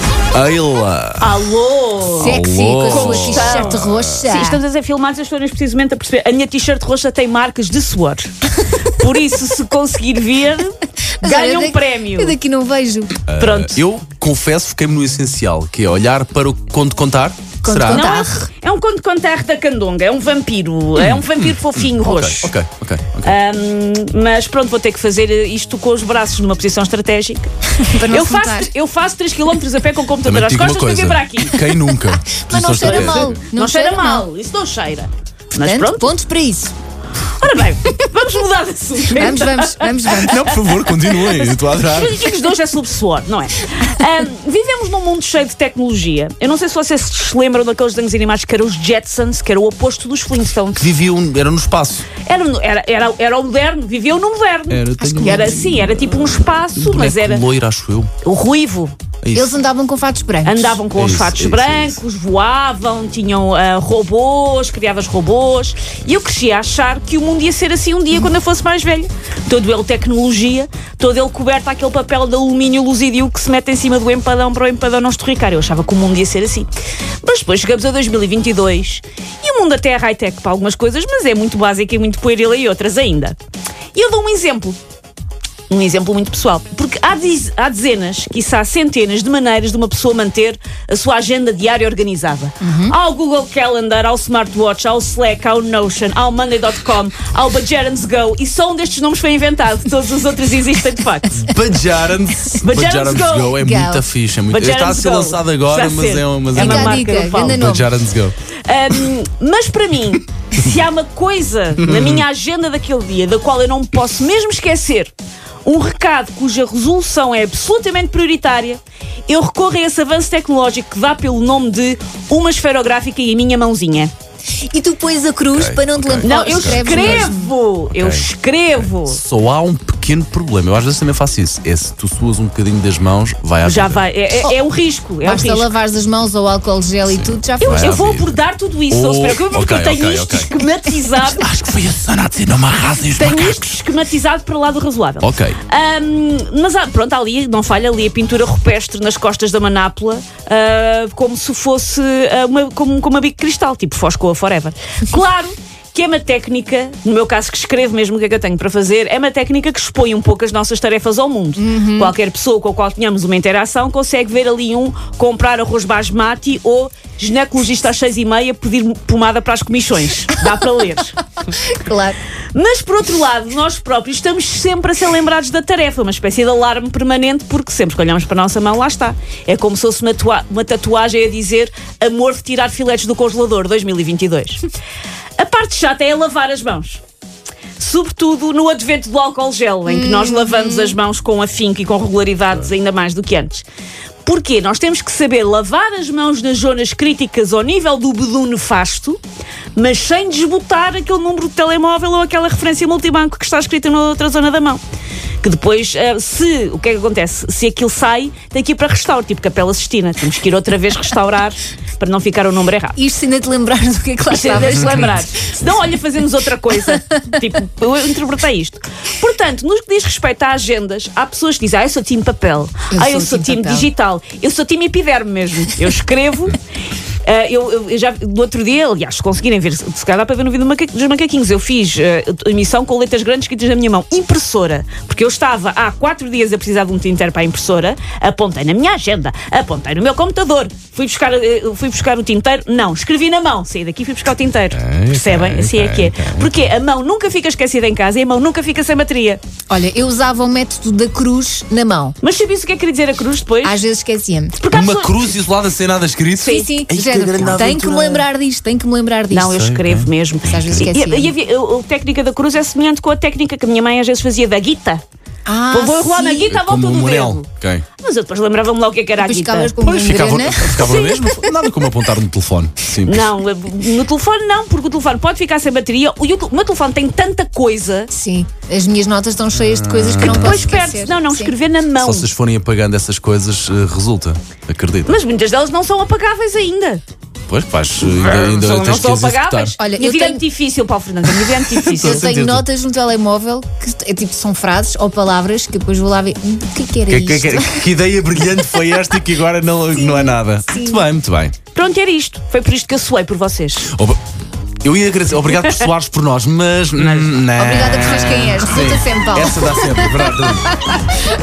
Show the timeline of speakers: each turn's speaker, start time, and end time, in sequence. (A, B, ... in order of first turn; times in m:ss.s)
0:00.3-0:01.4 A
0:01.2-0:12.3 B
0:02.2-0:04.3 A
0:02.2-0:04.6 C
0:11.2-0:13.2 C
0:13.3-0:18.1 A
0:13.4-0:13.8 B
0:17.6-0:18.5 C
0:17.9-0:22.5 B
0:21.1-0:23.4 A
0:23.2-0:31.6 B
0:27.8-0:28.7 C
0:30.2-0:33.4 A
0:32.4-0:34.3 C
0:32.8-0:36.1 B
0:35.6-0:36.7 C
0:37.3-0:40.7 B
0:39.1-0:41.0 C
0:40.2-0:42.3 A
0:41.4-0:50.9 B
0:50.8-0:52.1 A
0:52.2-0:57.4 B
0:54.7-0:58.1 A
0:55.0-0:55.6 C
0:58.2-0:58.9 B
0:59.2-0:59.5 A
0:59.3-1:00.8 C
1:00.4-1:16.7 B
1:01.0-1:02.0 A
1:17.2-1:23.4 B
1:23.9-1:24.8 B
1:25.7-1:41.5 B
1:32.6-1:33.0 C
1:41.4-1:48.4 A
1:42.6-1:43.6 B
1:43.6-1:44.0 C
1:44.5-1:47.6 B
1:46.6-1:47.9 C
1:48.7-1:55.1 B
1:51.8-1:52.2 A
1:55.6-2:04.1 B
2:04.7-2:07.5 C
2:05.5-2:07.3 A
2:06.2-2:09.2 B
2:07.9-2:14.1 A
2:13.6-2:15.7 B
2:15.2-2:17.9 C
2:17.1-2:18.3 A
2:17.6-2:21.4 B
2:18.9-2:20.5 A
2:21.1-2:23.8 A
2:23.2-2:51.2 B
2:25.2-2:25.6 A
2:41.6-2:42.2 C
2:51.6-2:52.2 C
2:52.5-3:04.6 B
3:05.4-3:07.0 B
3:07.8-3:13.7 B
3:09.9-3:11.0 C
3:14.2-3:19.2 B
3:19.8-3:24.8 B
3:25.4-3:33.0 B
3:33.0-3:35.8 C
3:34.3-3:46.6 B
3:42.9-3:43.9 C
3:47.2-4:09.4 B
4:04.7-4:06.5 A
4:09.7-4:12.2 C
4:12.2-4:13.8 B
4:13.6-4:14.6 C
4:14.6-4:15.3 B
4:14.7-4:18.2 A
4:16.4-4:16.8 B
4:16.4-4:19.6 C
4:19.3-4:25.0 B
4:19.5-4:20.9 A
4:20.5-4:21.3 C
4:25.5-4:26.5 C
4:25.7-4:27.5 B
4:26.5-4:27.8 A
4:28.0-4:29.8 B
4:29.2-4:31.5 C
4:29.8-4:33.4 A
4:30.8-4:31.2 B
4:33.0-4:38.1 B
4:38.1-4:41.5 C
4:39.6-4:40.8 A
4:40.2-4:42.3 B
4:42.0-4:45.1 A
4:45.1-4:47.0 B
4:47.5-4:49.8 A
4:48.0-4:52.3 B
4:49.8-4:50.4 C
4:51.9-4:52.7 A
4:52.0-4:57.9 C
4:57.1-5:01.5 A
4:59.9-5:01.0 C
5:01.7-5:03.9 B
5:03.9-5:04.2 A
5:04.8-5:10.7 A
5:07.6-5:10.9 C